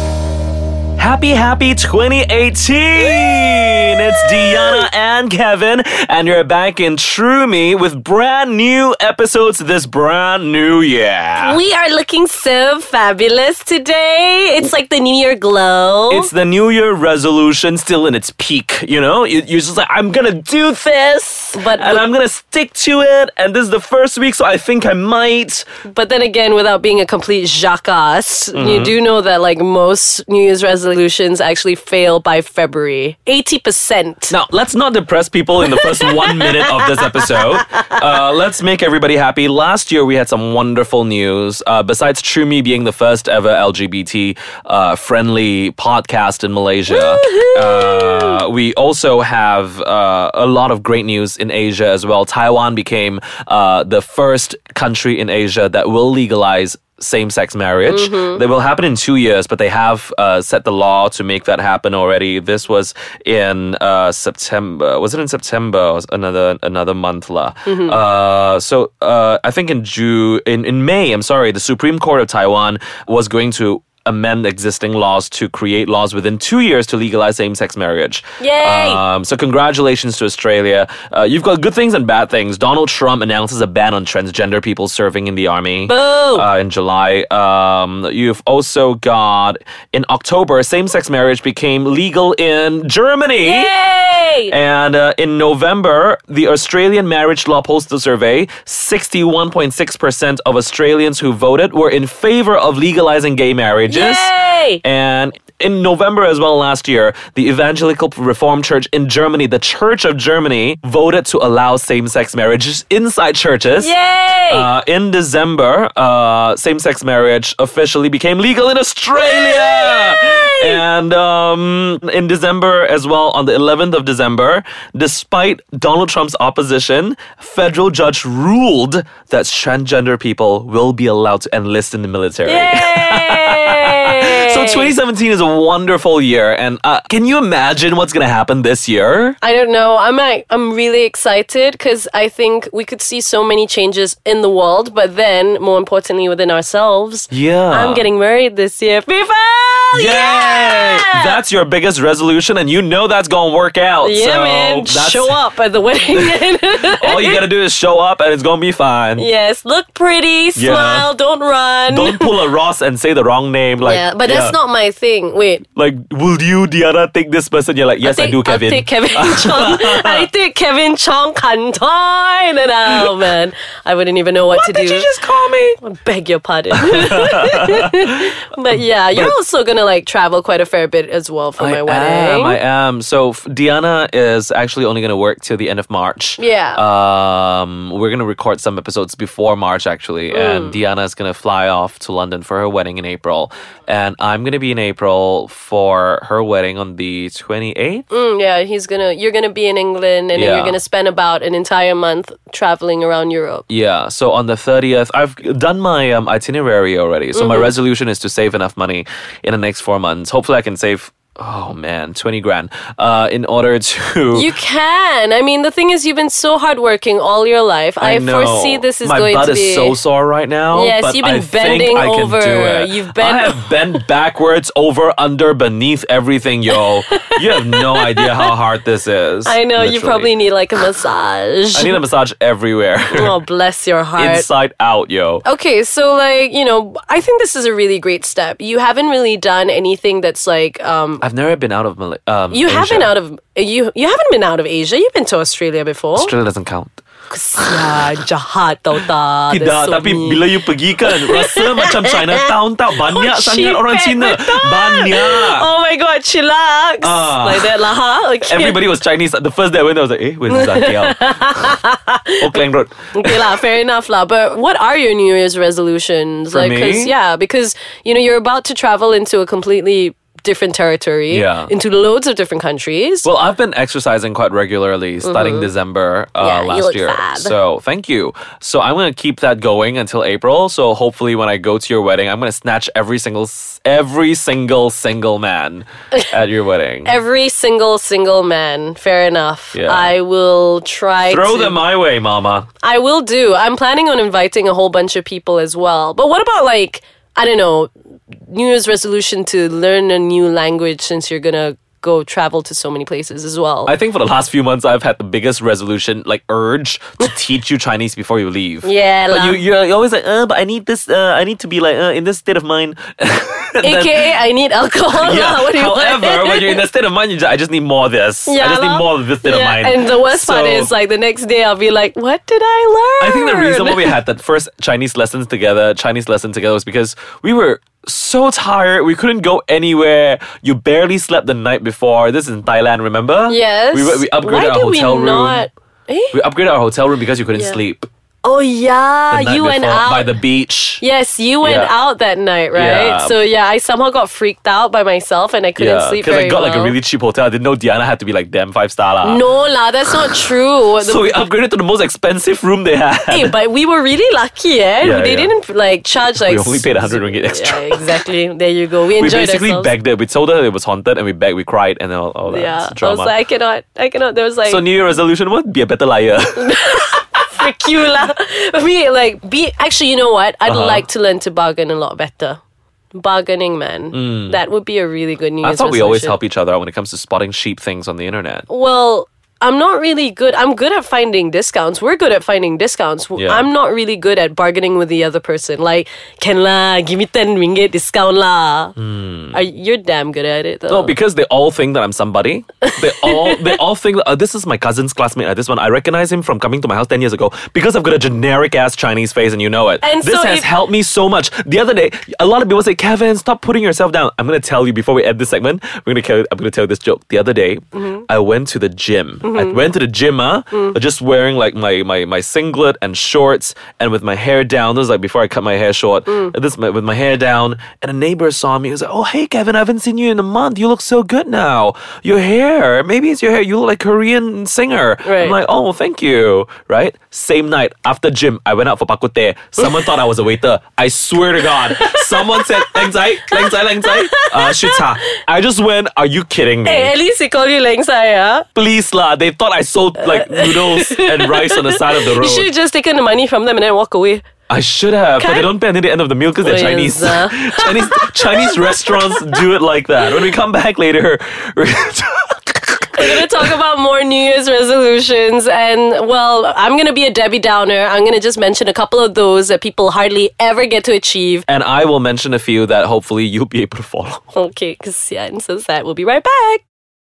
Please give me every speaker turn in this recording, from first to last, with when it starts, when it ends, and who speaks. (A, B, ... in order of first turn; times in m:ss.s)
0:01.0-0:11.6 A
0:03.2-0:04.8 B
0:11.4-0:16.3 B
0:16.1-0:25.6 A
0:21.5-0:22.0 B
0:25.8-0:34.3 B
0:28.5-0:29.0 A
0:34.3-1:33.8 A
0:35.6-0:37.3 B
0:46.9-0:48.4 B
0:57.9-0:58.4 B
1:07.6-1:08.0 B
1:18.4-1:19.0 B
1:25.9-1:26.5 B
1:33.4-1:34.5 B
1:34.5-1:53.9 A
1:43.9-1:44.8 B
1:53.8-1:54.7 B
1:54.5-2:19.4 A
1:59.2-2:00.8 B
2:12.4-2:14.9 B
2:19.4-2:31.4 B
2:27.3-2:28.1 A
2:29.9-2:35.4 A
2:34.0-2:37.4 B
2:36.1-2:39.3 A
2:39.2-2:42.3 B
2:40.6-2:41.1 A
2:41.9-2:44.6 A
2:43.8-2:45.6 B
2:45.8-2:50.3 A
2:48.0-2:55.1 B
2:54.5-2:55.8 A
2:55.8-3:02.6 B
2:56.7-2:58.3 A
3:01.6-3:18.0 A
3:06.4-3:06.8 B
3:10.3-3:10.8 B
3:18.1-3:23.6 B
3:20.3-3:20.8 A
3:23.7-3:34.5 A
3:27.3-3:27.7 B
3:34.3-3:40.0 B
3:38.0-3:50.3 A
3:40.7-3:43.9 B
3:46.7-3:48.5 B
3:49.4-3:52.0 B
3:51.7-3:53.3 A
3:53.1-3:54.5 B
3:54.2-3:55.4 A
3:55.4-4:01.2 B
4:01.2-4:03.1 A
4:02.5-4:06.3 B
4:06.2-4:07.0 A
4:07.3-4:10.4 B
4:07.6-4:08.0 A
4:09.5-4:15.7 A
4:11.0-4:18.8 B
4:17.0-4:17.9 A
4:18.4-4:21.7 A
4:20.5-4:22.4 B
4:22.4-4:23.6 A
4:23.1-4:33.3 B
4:26.5-4:27.1 A
4:31.3-4:31.7 A
4:33.2-4:47.2 A
4:35.2-4:35.7 B
4:36.4-4:37.5 B
4:47.0-4:51.8 B
4:49.7-4:50.1 A
4:51.2-4:52.7 A
4:52.8-5:03.9 B
5:03.8-5:14.3 A
5:08.8-5:09.6 B
5:13.8-5:16.8 B
5:15.1-5:20.9 A
5:18.4-5:24.2 B
5:23.2-5:35.7 A
5:33.5-5:36.4 B
5:36.3-5:38.1 A
5:37.5-5:37.8 B
5:38.4-5:40.3 B
5:39.3-5:41.0 A
5:41.0-5:47.0 B
5:41.6-5:41.9 A
5:42.7-5:43.4 A
5:45.8-5:49.4 A
5:49.2-5:51.4 B
5:51.0-5:53.5 A
5:53.3-5:59.9 B
5:55.0-5:55.5 A
5:56.4-5:58.2 A
5:59.1-6:03.3 A
6:02.5-6:04.8 B
6:04.6-6:06.9 A
6:06.6-6:12.6 B
6:10.6-6:11.0 A
6:13.1-6:16.4 B
6:14.1-6:14.6 A
6:15.6-6:18.7 A
6:18.7-6:28.9 B
6:23.4-6:23.7 A
6:29.0-6:29.6 A
6:29.5-6:31.1 B
6:30.9-7:17.1 A
6:32.8-6:33.8 B
6:40.0-6:40.7 B
6:48.0-6:48.2 B
6:49.4-6:49.8 B
6:56.3-6:56.5 B
7:05.2-7:05.6 B
7:11.7-7:15.0 B
7:16.8-7:18.7 B
7:18.7-7:22.7 A
7:20.2-7:24.4 B
7:24.7-7:33.7 A
7:25.4-7:25.7 B
7:26.6-7:29.6 B
7:33.1-7:41.6 B
7:41.7-7:44.4 A
7:44.5-7:46.8 B